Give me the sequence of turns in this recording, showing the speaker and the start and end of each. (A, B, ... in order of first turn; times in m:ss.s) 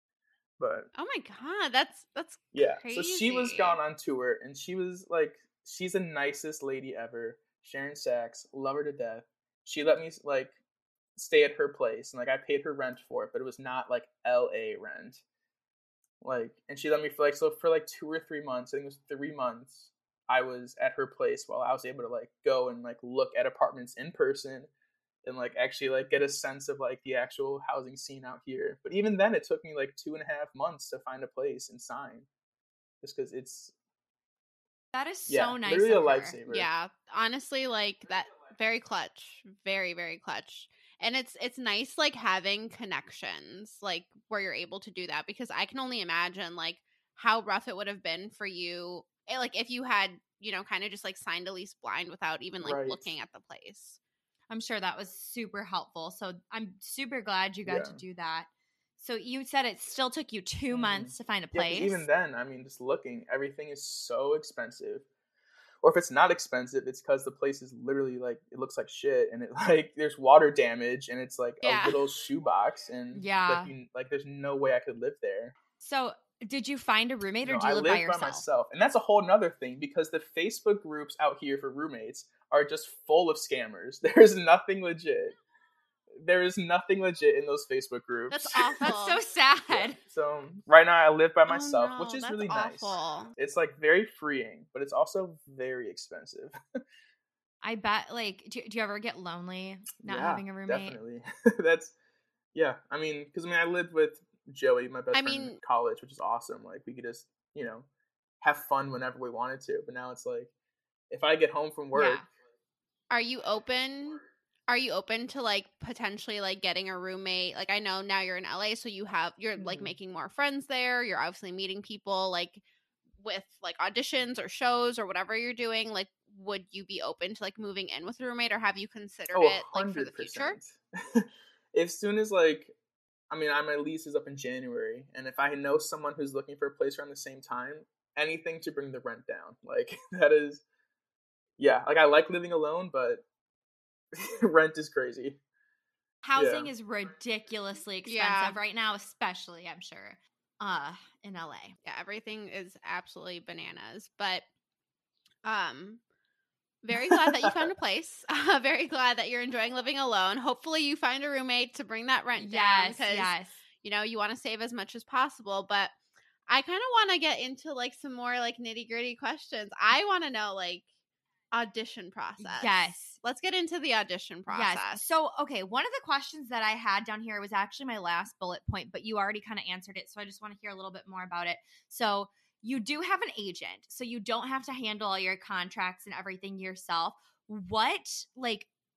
0:00.6-0:00.9 A
0:01.0-0:03.8 B
0:02.5-0:10.6 A
0:11.2-0:15.2 A
0:16.2-0:24.7 A
0:25.2-0:32.3 A
0:33.0-0:33.7 A
0:34.9-0:36.4 C
0:35.3-0:36.7 A
0:36.5-0:54.0 B
0:52.6-0:53.1 A
0:54.5-0:58.5 C
0:57.6-0:58.0 A
0:59.0-1:02.0 C
1:00.7-1:05.0 A
1:05.8-1:15.6 A
1:11.6-1:12.0 B
1:13.1-1:13.7 C
1:15.8-1:18.4 C
1:17.4-1:25.4 A
1:26.2-1:28.9 A
1:28.3-1:29.2 B
1:28.8-1:30.0 C
1:29.7-1:36.6 A
1:31.5-1:33.3 B
1:37.6-1:41.0 C
1:40.0-1:41.9 A
1:42.5-1:47.9 A
1:45.1-1:45.6 B
1:48.4-1:50.5 A
1:51.1-1:52.2 A
1:51.9-1:52.2 C
1:53.1-2:02.6 B
1:59.6-1:59.9 A
2:03.2-2:10.6 B
2:09.3-2:12.7 A
2:13.3-2:20.6 A
2:21.6-2:23.2 A
2:24.2-2:25.4 A
2:26.2-2:31.8 C
2:26.4-2:26.7 A
2:28.0-2:28.6 B
2:31.8-2:34.5 B
2:35.4-2:36.0 B
2:36.8-2:45.9 B
2:42.4-2:43.6 C
2:46.5-2:50.8 B
2:51.5-2:55.0 B
2:52.4-2:53.2 C
2:54.5-3:08.7 C